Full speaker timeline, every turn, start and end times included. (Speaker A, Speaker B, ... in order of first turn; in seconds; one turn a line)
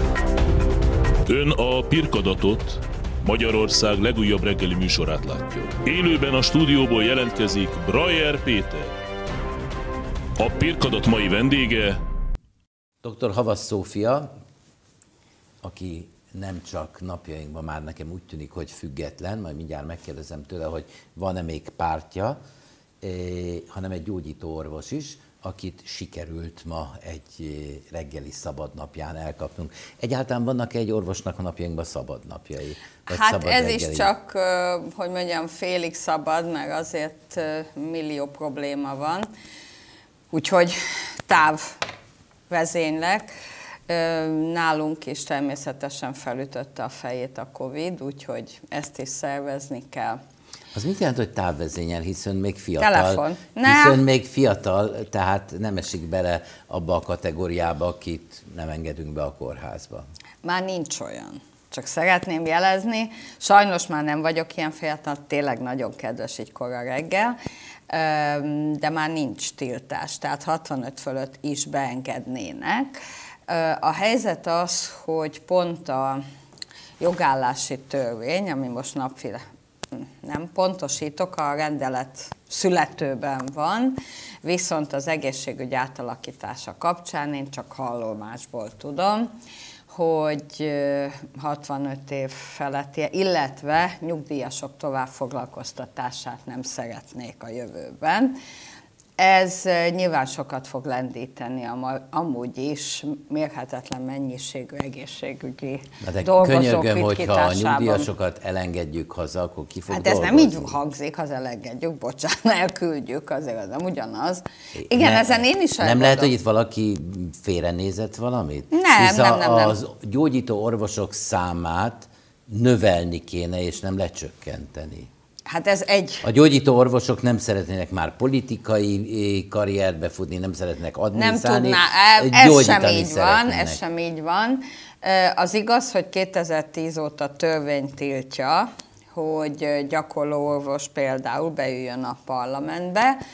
Speaker A: 1.3-8.9
Speaker A: 10.4-12.0
Speaker B: 13.0-14.3
Speaker B: 15.6-22.4
Speaker B: 23.0-34.1
Speaker C: 33.1-39.3
Speaker C: 40.3-41.8
Speaker C: 42.5-43.3
Speaker C: 43.9-50.2
Speaker B: 50.7-60.0
Speaker C: 52.8-54.0
Speaker C: 60.4-67.3
Speaker C: 67.9-76.2
Speaker C: 77.0-89.3
Speaker C: 89.9-98.4
Speaker C: 99.2-108.1
Speaker B: 106.0-110.8
Speaker C: 109.9-116.3
Speaker B: 114.8-125.1
Speaker C: 118.7-119.8
Speaker C: 125.5-126.3
Speaker B: 126.2-133.8
Speaker C: 131.1-143.2